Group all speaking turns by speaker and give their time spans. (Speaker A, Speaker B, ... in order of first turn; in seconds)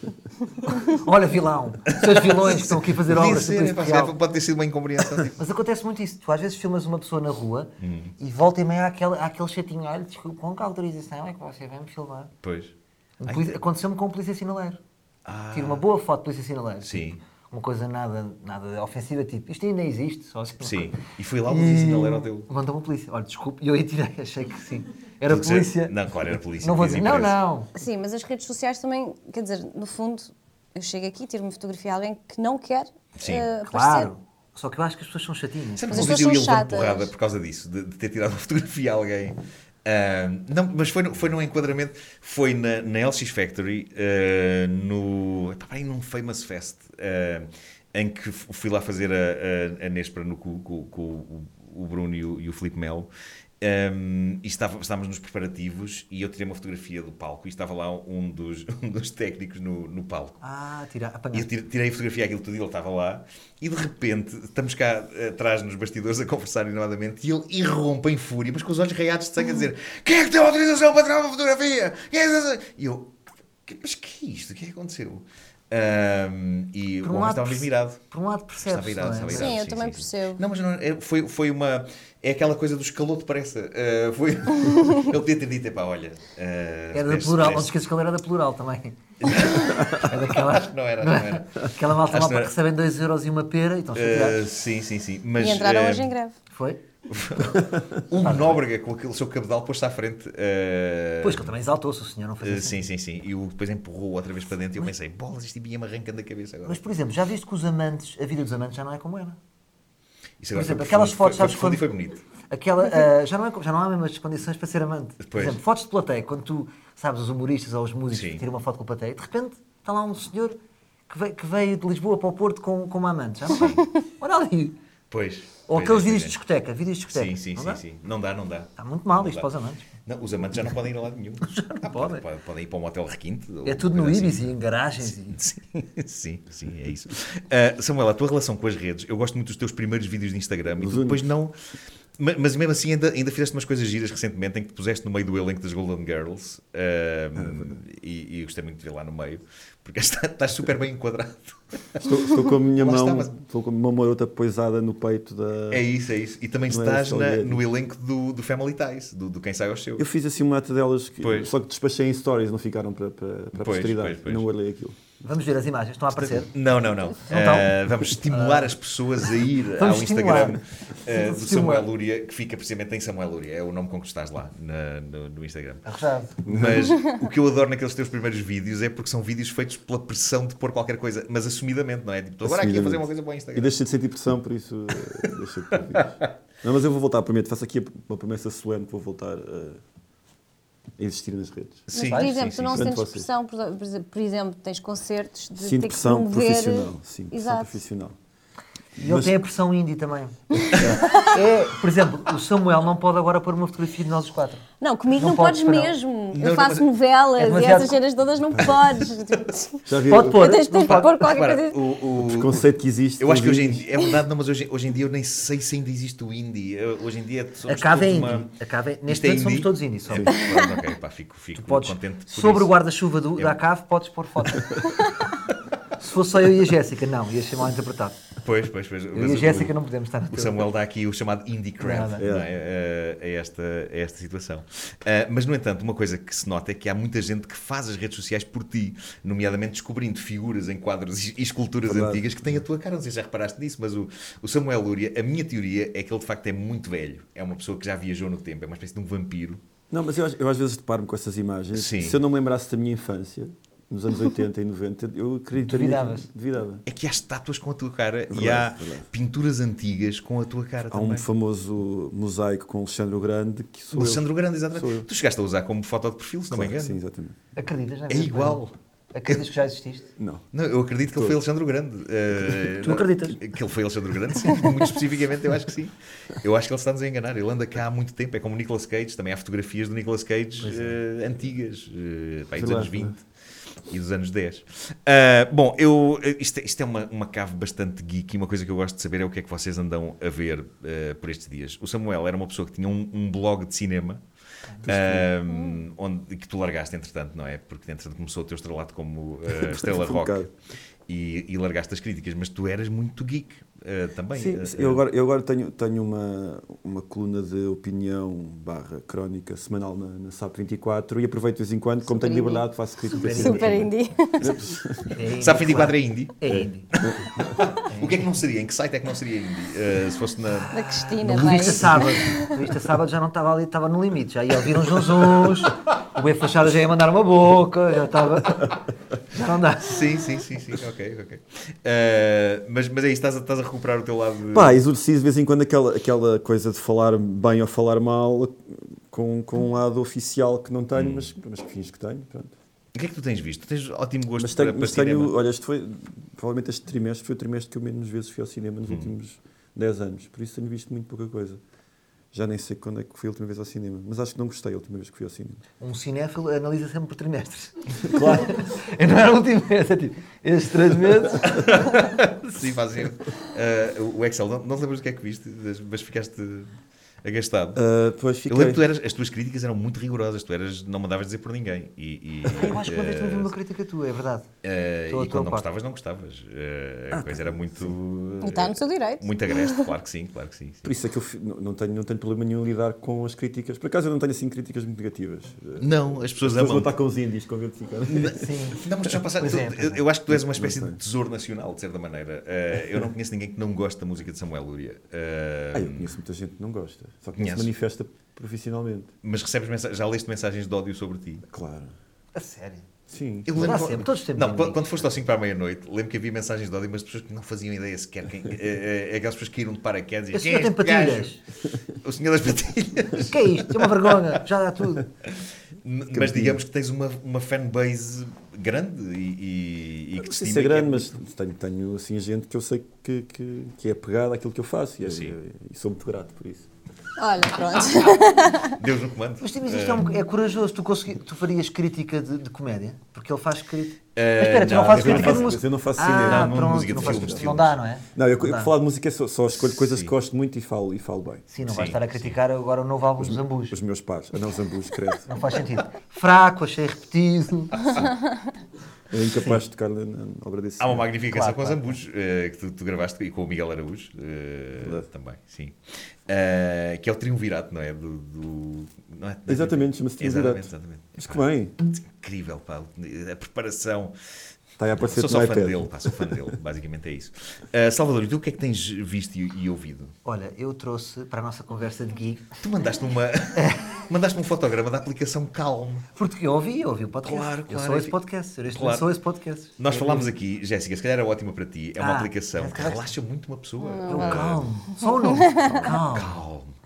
Speaker A: 0.7-4.2, 5.4-12.3, 13.2-14.8, 15.5-25.9, 26.6-27.7, 33.6-36.2, 60.4-61.5, 77.0-79.6, 86.9-94.5, 96.5-96.8, 98.2-98.6, 101.2-102.9, 106.6-109.4, 110.5-111.9, 112.4-120.6, 121.1-124.8, 125.7-127.8, 128.8-129.9, 131.5-132.3, 133.7-135.4, 165.2-166.5, 167.3-168.8, 169.8-171.9, 175.8-176.4, 192.0-192.4, 199.0-205.9, 207.4-208.0, 210.1-211.3, 217.7-220.4, 221.6-224.9, 226.0-228.2, 229.1-230.7, 231.8-232.3, 255.6-256.3, 267.6-270.1, 272.8-273.4, 280.6-281.0, 313.1-313.9, 315.1-316.9, 317.9-318.3, 320.8-330.1, 355.8-361.9, 372.5-374.5, 375.1-375.7, 388.3-390.0, 402.4-402.9, 403.6-404.9, 410.3-411.4, 413.3-415.1, 429.4-438.7, 441.5-443.8, 445.3-448.1, 451.3-452.0, 470.2-472.6, 473.6-474.0, 476.1-480.3, 482.0-483.2, 484.1-486.4
Speaker B: 2.0-5.4, 7.8-8.1, 12.4-12.7, 13.3-13.6, 15.2-15.8, 16.8-17.2, 20.6-22.5, 25.3-27.4, 33.2-33.5, 35.8-53.1, 53.6-60.4, 61.3-78.0, 78.7-87.7, 89.2-92.5, 94.0-96.1, 97.1-101.5, 102.4-106.8, 110.4-112.2, 115.2-115.6, 118.1-118.4, 123.6-123.8, 125.1-126.4, 127.1-129.5, 130.1-134.5, 135.3-141.5, 142.2-152.2, 152.8-153.3, 155.7-160.1, 161.2-161.5, 163.6-164.4, 166.1-175.8, 176.4-183.8, 191.9-192.9, 206.3-206.9, 210.8-212.7, 213.2-218.5, 219.1-222.7, 228.4-229.7, 230.3-249.6, 251.7-252.2, 256.9-261.3, 263.9-267.0, 268.1-268.6, 270.5-283.2, 283.9-294.2, 294.8-300.5, 301.1-305.0, 315.4-316.4, 317.0-320.8, 321.3-322.0, 329.8-334.8, 340.9-341.3, 342.9-345.3, 361.6-366.7, 367.2-367.8, 368.5-373.5, 374.6-380.9, 385.8-386.9, 388.1-396.1, 397.4-397.7, 399.2-401.5, 403.5-411.3, 411.9-414.1, 415.8-421.1, 425.0-425.4, 428.6-430.1, 434.2-437.8, 439.7-440.1, 441.6-442.3, 447.8-448.1, 450.8-464.1, 465.0-470.1, 472.6-476.1, 477.2-478.2, 478.7-479.1, 479.8-484.7, 485.6-486.8
Speaker C: 27.8-34.1, 35.9-37.1, 79.3-80.4, 95.4-96.4, 191.9-197.8, 200.6-201.4, 204.8-211.8, 295.5-295.8, 312.0-314.8, 320.7-322.6, 378.4-379.9, 427.2-428.8, 483.8-485.9
Speaker D: 140.8-141.2, 147.4-147.7, 152.0-155.8, 156.7-157.6, 160.0-165.0, 176.5-176.9, 182.4-186.1, 186.6-189.8, 191.0-191.9, 192.7-193.3, 195.6-198.2, 199.0-199.3, 209.8-210.4, 212.2-213.9, 232.2-232.5, 241.9-242.6, 249.9-256.8, 258.3-259.1, 260.9-265.1, 266.5-267.4, 270.2-270.4, 282.6-283.2, 294.9-295.3, 299.6-300.5, 304.3-315.2, 317.1-317.5, 334.5-342.5, 344.4-351.6, 352.3-355.6, 358.0-358.6, 367.8-368.8, 377.1-377.9, 380.9-388.4, 390.3-391.0, 395.7-399.1, 401.5-401.9, 403.1-403.5, 416.1-416.6, 420.2-426.7, 434.9-437.6, 438.1-441.5, 443.2-445.3, 449.1-451.1, 459.5-461.7, 464.8-466.4